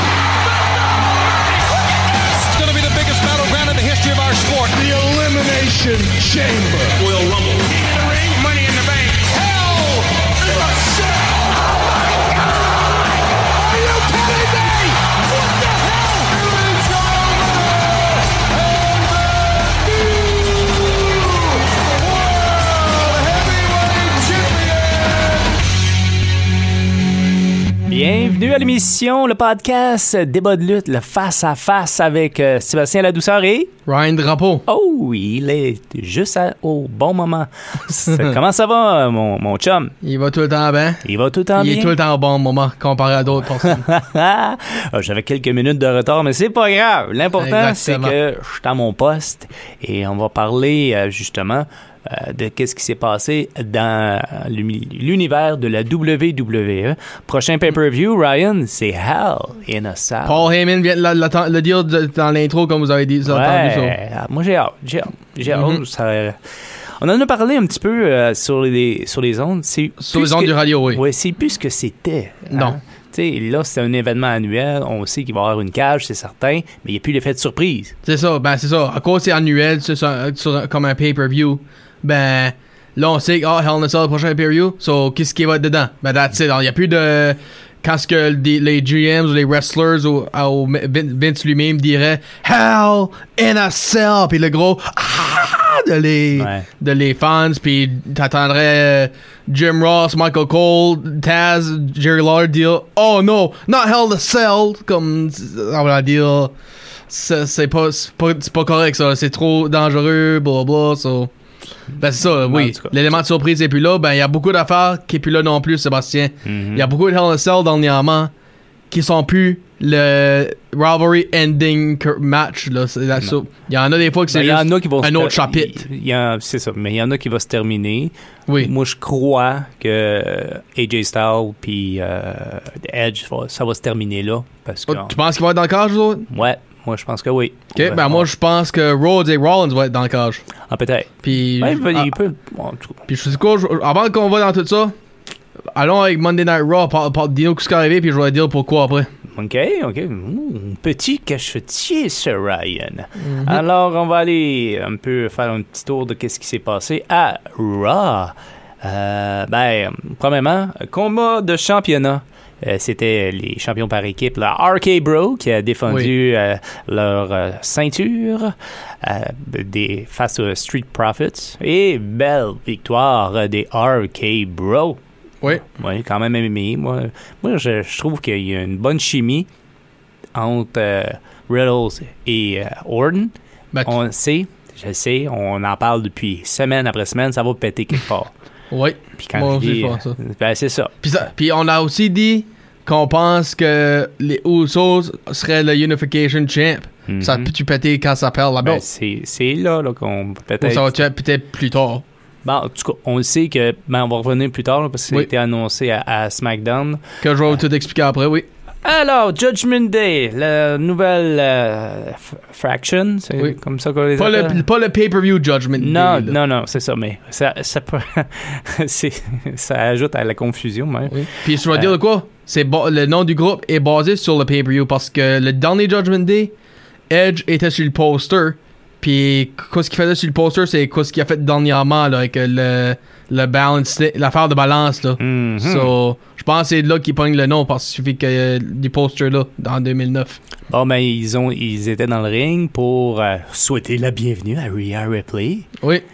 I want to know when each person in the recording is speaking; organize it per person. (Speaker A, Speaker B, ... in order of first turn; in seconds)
Speaker A: 0.8-25.6
Speaker B: 27.9-33.7, 34.7-39.9, 41.0-42.0, 43.6-60.5, 63.3-66.3, 67.0-77.9, 96.3-96.7, 112.3-113.2, 116.4-116.9, 124.3-135.2, 136.3-138.3, 140.7-143.0, 149.3-175.0, 175.5-179.5, 180.3-183.3, 183.8-188.3, 189.2-190.9, 197.1-197.5, 198.6-200.9, 202.4-207.0, 208.8-214.6, 215.8-221.9, 235.2-235.9, 240.7-245.7
Speaker C: 33.9-34.6, 40.0-41.0, 41.5-43.9, 47.4-48.1, 60.2-64.0, 65.5-65.8, 70.0-71.0, 72.5-72.8, 78.0-106.5, 107.1-111.3, 112.0-118.3, 118.9-125.8, 134.9-136.3, 137.7-140.4, 141.2-142.1, 143.1-144.9, 145.7-149.1, 153.2-153.6, 188.7-190.2, 191.0-198.8, 200.6-202.0, 207.2-208.5, 214.2-216.3, 221.1-226.5, 227.1-240.4, 245.8-246.0